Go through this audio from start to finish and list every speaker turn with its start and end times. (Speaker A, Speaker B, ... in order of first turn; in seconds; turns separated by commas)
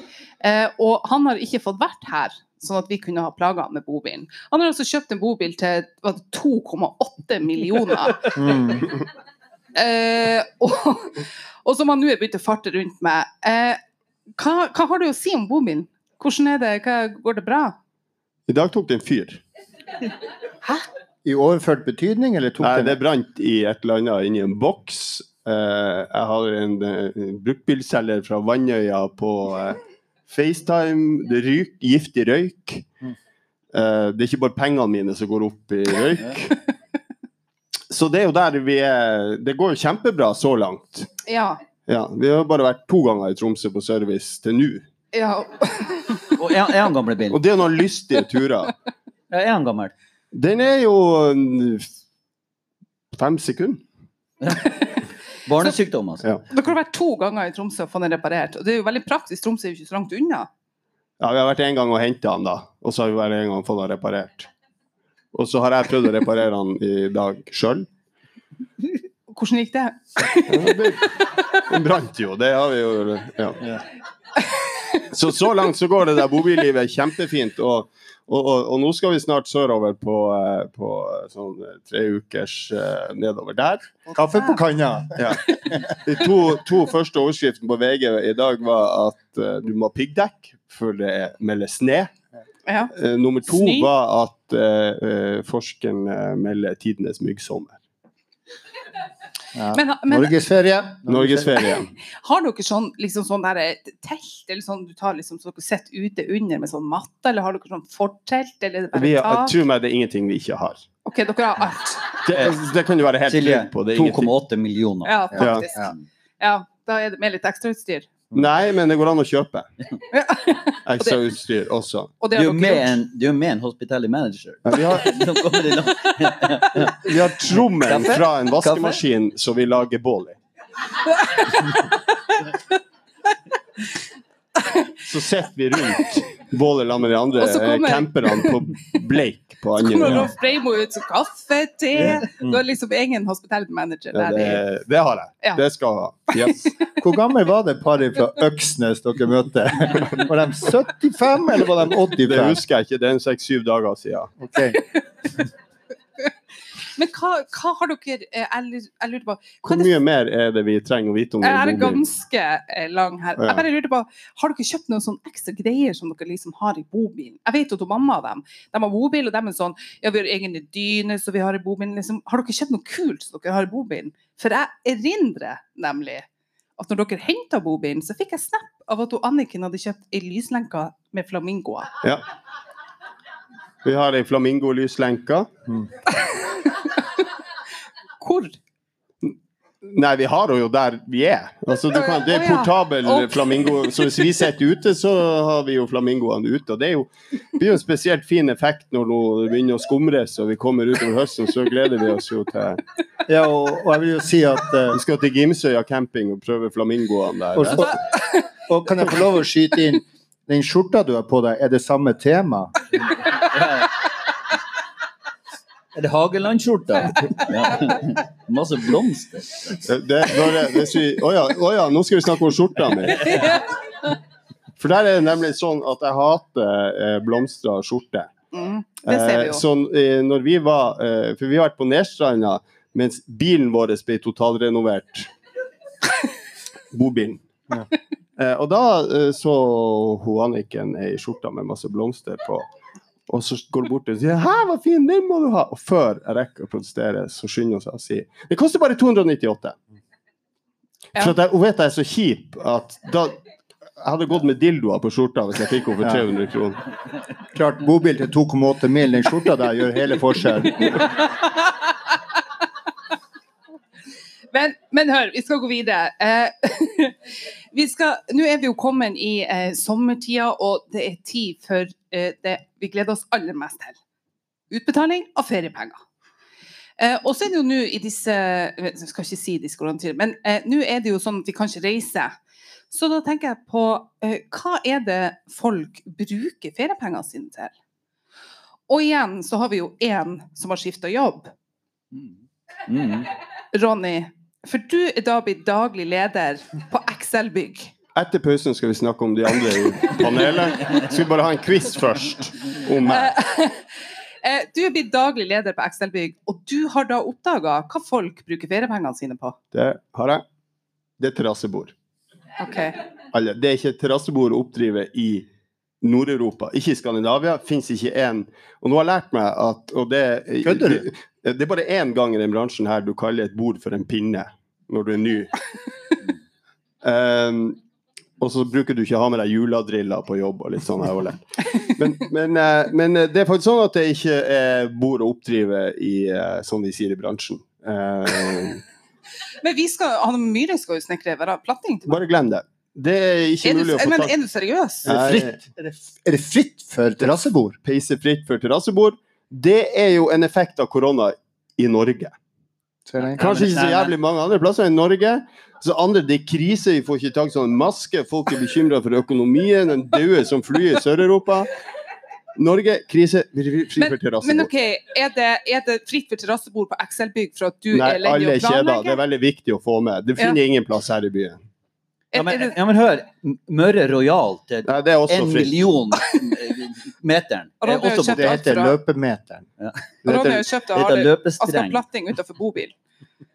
Speaker A: 0.4-8.4, Speaker B: 8.3-8.9, Speaker A: 9.8-13.8, Speaker A: 14.4-17.8, Speaker C: 18.5-19.4, Speaker B: 21.2-23.0, Speaker C: 22.6-32.9, Speaker C: 33.7-36.6, Speaker C: 37.9-41.1, Speaker A: 41.2-41.6, Speaker C: 41.9-44.9, Speaker A: 45.1-46.4, Speaker D: 46.3-47.4, Speaker C: 47.3-48.7, Speaker D: 49.3-49.9, Speaker C: 50.3-51.9, Speaker C: 53.1-53.9, Speaker D: 54.4-54.9, Speaker D: 55.5-56.3, Speaker A: 56.5-60.5, Speaker C: 61.2-64.5, Speaker C: 65.3-67.9, Speaker A: 69.3-71.2, Speaker C: 70.5-73.7, Speaker A: 74.5-75.0, Speaker C: 75.1-84.0, Speaker A: 84.1-84.6, Speaker B: 84.1-85.9, Speaker C: 85.2-92.1, Speaker A: 92.7-92.9, Speaker C: 93.0-97.8, Speaker A: 93.5-93.9, Speaker B: 99.5-101.6, Speaker A: 99.7-100.4, Speaker C: 101.1-101.9, Speaker A: 101.7-109.6, Speaker C: 109.0-110.9, Speaker A: 111.0-112.2, Speaker C: 112.2-114.3, Speaker D: 113.3-116.0, Speaker A: 115.0-118.1, Speaker B: 115.3-115.9, Speaker C: 115.4-115.7, Speaker C: 118.3-119.7, Speaker A: 120.1-121.2, Speaker C: 120.8-122.1, Speaker A: 122.2-123.0, Speaker D: 122.3-127.0, Speaker C: 124.7-125.2, Speaker C: 126.8-130.4, Speaker D: 127.8-129.0, Speaker A: 131.2-131.9, Speaker C: 135.0-140.3, Speaker A: 137.4-138.6, Speaker A: 139.8-144.6, Speaker B: 142.2-142.6, Speaker C: 144.1-146.7, Speaker A: 146.3-146.7, Speaker B: 147.0-152.6, Speaker C: 152.2-154.3, Speaker B: 154.4-154.8, Speaker A: 156.8-159.9, Speaker C: 159.6-162.0, Speaker A: 161.4-182.0, Speaker C: 163.4-163.6, Speaker C: 183.8-185.5, Speaker A: 186.1-187.0, Speaker A: 188.2-188.6, Speaker C: 189.2-202.8, Speaker A: 191.9-194.2, Speaker B: 203.3-205.0, Speaker C: 204.9-208.0, Speaker B: 207.6-208.0, Speaker B: 208.7-212.7, Speaker D: 213.4-213.9, Speaker D: 215.9-219.8, Speaker C: 219.8-223.5, Speaker C: 224.8-228.3, Speaker A: 228.5-229.6, Speaker C: 229.1-235.3, Speaker C: 236.9-237.8, Speaker C: 238.4-242.7, Speaker C: 243.3-249.8, Speaker C: 251.2-253.4, Speaker C: 254.0-256.8, Speaker B: 257.5-261.1, Speaker A: 261.4-261.7, Speaker A: 264.5-274.0, Speaker A: 274.7-276.0, Speaker A: 277.0-282.4, Speaker A: 282.9-287.7, Speaker A: 288.9-291.5, Speaker D: 292.9-293.3, Speaker A: 293.7-297.9, Speaker C: 298.1-303.4, Speaker A: 303.0-303.9, Speaker A: 304.4-309.6, Speaker C: 309.7-310.4, Speaker C: 311.2-311.9, Speaker A: 312.6-313.0, Speaker C: 313.3-315.5, Speaker C: 316.0-325.6, Speaker B: 320.6-321.1, Speaker C: 327.0-327.8, Speaker C: 328.4-338.8, Speaker A: 339.6-342.2, Speaker C: 342.1-344.3, Speaker A: 343.6-345.1, Speaker C: 345.1-345.6, Speaker B: 345.1-347.8, Speaker C: 347.8-352.4, Speaker B: 353.1-353.4, Speaker D: 353.2-354.1, Speaker C: 353.4-361.7, Speaker C: 362.6-364.7, Speaker A: 364.0-369.2, Speaker C: 367.9-371.6, Speaker A: 372.3-372.8, Speaker D: 372.4-378.6, Speaker C: 374.9-375.8, Speaker A: 377.8-379.0, Speaker B: 378.3-379.7, Speaker C: 380.2-380.6, Speaker A: 380.3-382.9, Speaker D: 380.9-382.0